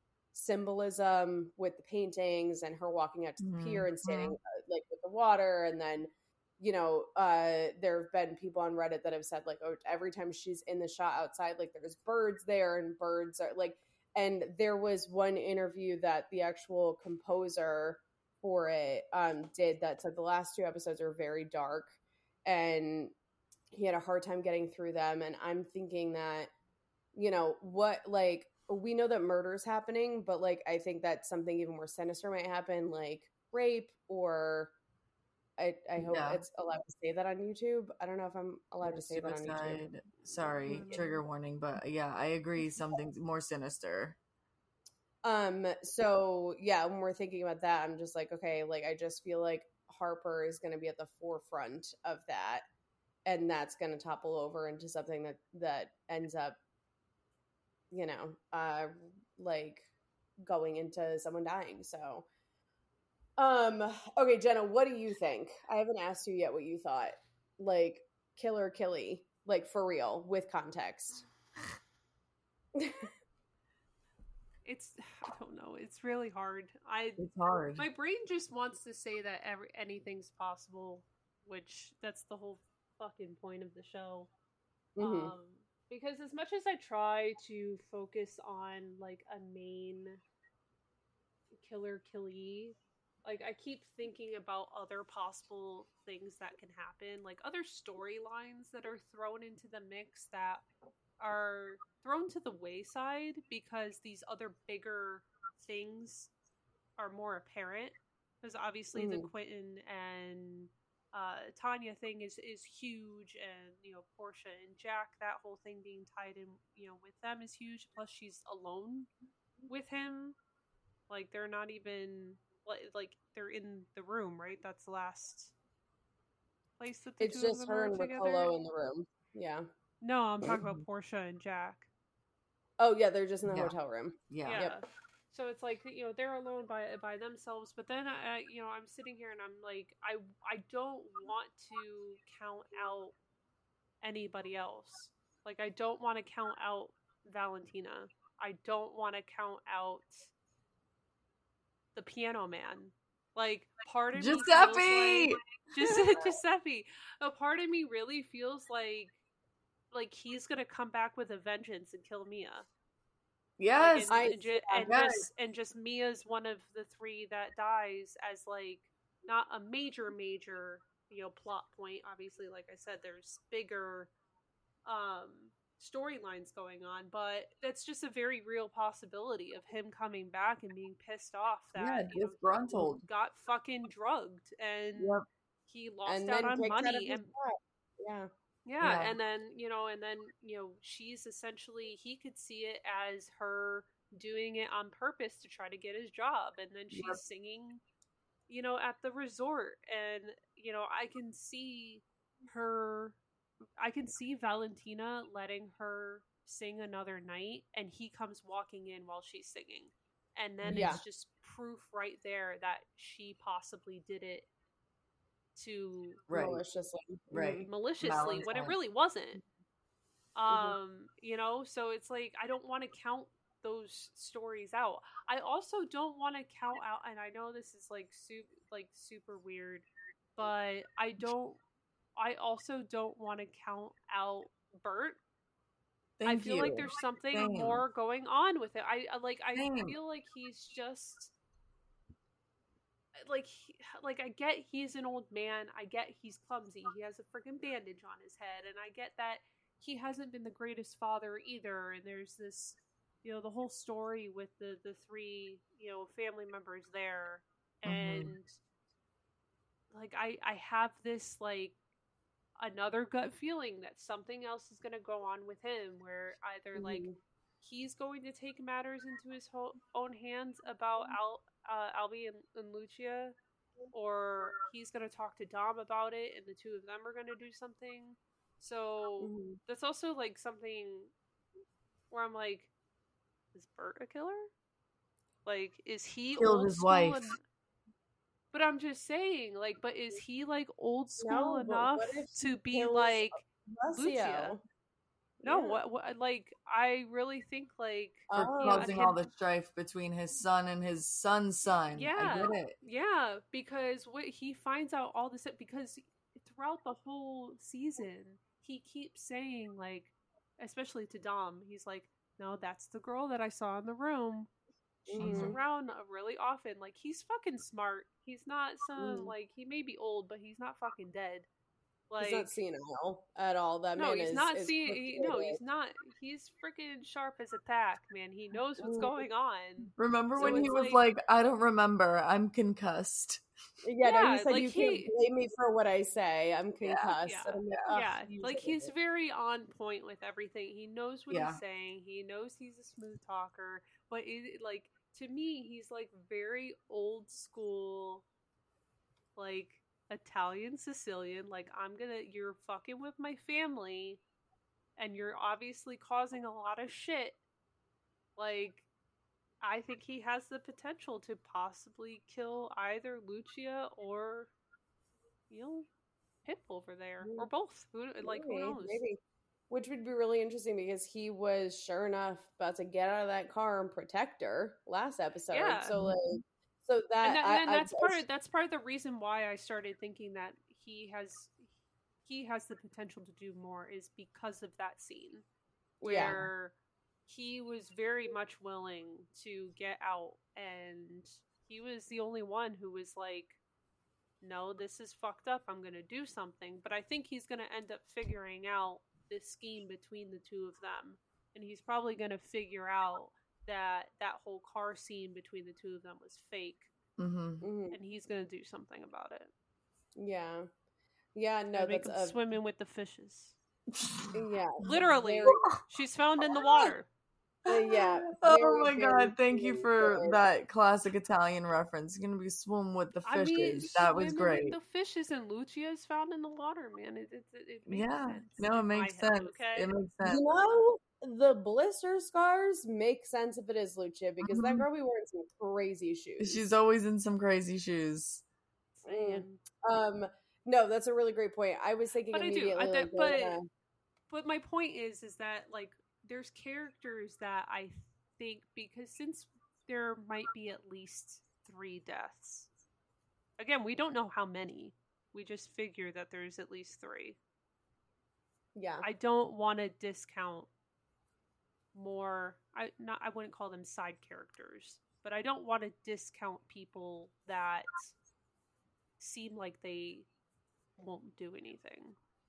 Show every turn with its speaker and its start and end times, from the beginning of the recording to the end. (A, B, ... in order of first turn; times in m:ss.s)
0:00.3-0:23.1 A
0:03.4-0:04.4 B
0:23.7-0:26.5 A
0:27.1-0:34.7 A
0:35.6-0:39.8 A
0:36.0-0:36.4 B
0:38.8-0:44.2 B
0:40.6-0:41.2 C
0:40.7-0:41.0 A
0:45.2-0:52.6 A
0:53.2-0:56.6 A
0:57.9-0:59.9 A
1:00.4-1:02.2 A
1:03.4-1:11.2 A
1:12.8-1:13.1 A
1:14.6-1:24.3 C
1:17.2-1:17.8 B
1:25.0-1:25.3 A
1:25.0-1:30.2 C
1:31.5-1:40.6 C
1:41.2-1:46.3 C
1:47.0-1:59.1 C
1:48.9-1:49.3 A
1:59.7-2:00.4 C
2:01.1-2:05.5 C
2:06.8-2:08.5 C
2:07.2-2:09.7 A
2:10.0-2:11.9 C
2:12.8-2:14.8 A
2:13.5-2:13.7 B
2:14.3-2:14.7 B
2:14.4-2:23.1 C
2:24.0-2:30.3 C
2:31.9-2:39.2 C
2:34.1-2:35.4 B
2:39.9-2:42.7 C
2:43.6-2:44.2 B
2:43.8-2:54.1 C
2:44.1-2:44.9 A
2:44.8-2:45.3 B
2:54.8-3:07.3 C
3:01.7-3:03.0 B
3:05.0-3:05.2 B
3:06.0-3:08.3 A
3:08.6-3:17.8 C
3:08.8-3:09.2 B
3:16.9-3:17.2 B
3:18.5-3:23.2 C
3:23.8-3:34.5 C
3:30.6-3:31.0 B
3:30.7-3:31.0 A
3:35.6-3:36.2 C
3:36.3-3:36.6 B
3:36.3-3:37.7 A
3:37.3-3:38.7 B
3:37.4-3:39.4 C
3:40.4-3:51.6 C
3:40.5-3:40.8 A
3:52.2-3:55.2 C
3:56.2-3:57.8 B
3:56.2-4:01.3 C
3:59.6-4:00.0 B
4:03.2-4:18.6 C
4:17.8-4:18.3 B
4:19.9-4:21.8 C
4:22.6-4:27.1 C
4:26.7-4:27.2 A
4:27.6-4:33.4 C
4:33.9-4:41.1 C
4:39.2-4:39.6 A
4:42.1-4:42.7 C
4:43.5-4:44.5 C
4:45.4-4:47.4 C
4:46.4-4:47.2 B
4:48.5-4:54.6 C
4:51.2-4:54.6 A
4:55.4-4:59.2 C
4:55.4-4:55.8 A
4:58.3-4:59.1 A
4:58.3-5:02.7 B
5:01.9-5:14.5 C
5:15.0-5:21.5 C
5:15.1-5:15.6 A
5:15.2-5:15.6 B
5:19.0-5:19.3 A
5:22.1-5:22.5 C
5:22.2-5:25.6 A
5:24.0-5:31.0 C
5:28.8-5:29.2 A
5:30.0-5:33.4 B
5:30.4-5:30.8 A
5:33.8-5:38.9 A
5:34.0-5:35.1 C
5:36.8-5:37.2 B
5:37.2-5:48.2 C
5:41.3-5:41.6 B
5:49.4-5:54.2 C
5:55.0-5:57.4 C
5:58.4-5:58.8 C
5:59.6-6:04.5 C
6:05.5-6:05.9 C
6:06.4-6:09.0 C
6:07.2-6:07.5 A
6:08.2-6:09.2 A
6:09.7-6:18.2 A
6:15.5-6:15.9 C
6:17.2-6:21.7 C
6:22.2-6:25.4 C
6:26.0-6:26.4 A
6:26.0-6:26.7 C
6:27.3-6:33.6 C
6:34.4-6:46.9 C
6:47.2-6:47.6 B
6:47.6-6:48.0 A
6:47.9-6:49.5 C
6:50.2-6:50.7 A
6:51.3-6:52.4 A
6:51.7-6:53.6 C
6:54.0-6:54.3 B
6:54.3-6:55.6 A
6:54.8-6:57.1 C
6:57.6-7:00.4 A
6:57.7-7:04.8 B
7:03.2-7:09.9 C
7:07.9-7:10.4 B
7:10.2-7:16.6 A
7:14.4-7:14.8 B
7:16.4-7:18.4 B
7:19.0-7:19.6 C
7:19.1-7:23.6 A
7:22.3-7:23.6 C
7:24.3-7:32.7 C
7:33.6-7:37.4 C
7:38.8-7:39.0 A
7:39.0-7:40.7 C
7:41.9-7:48.1 C
7:49.2-7:50.3 C
7:51.0-7:52.2 C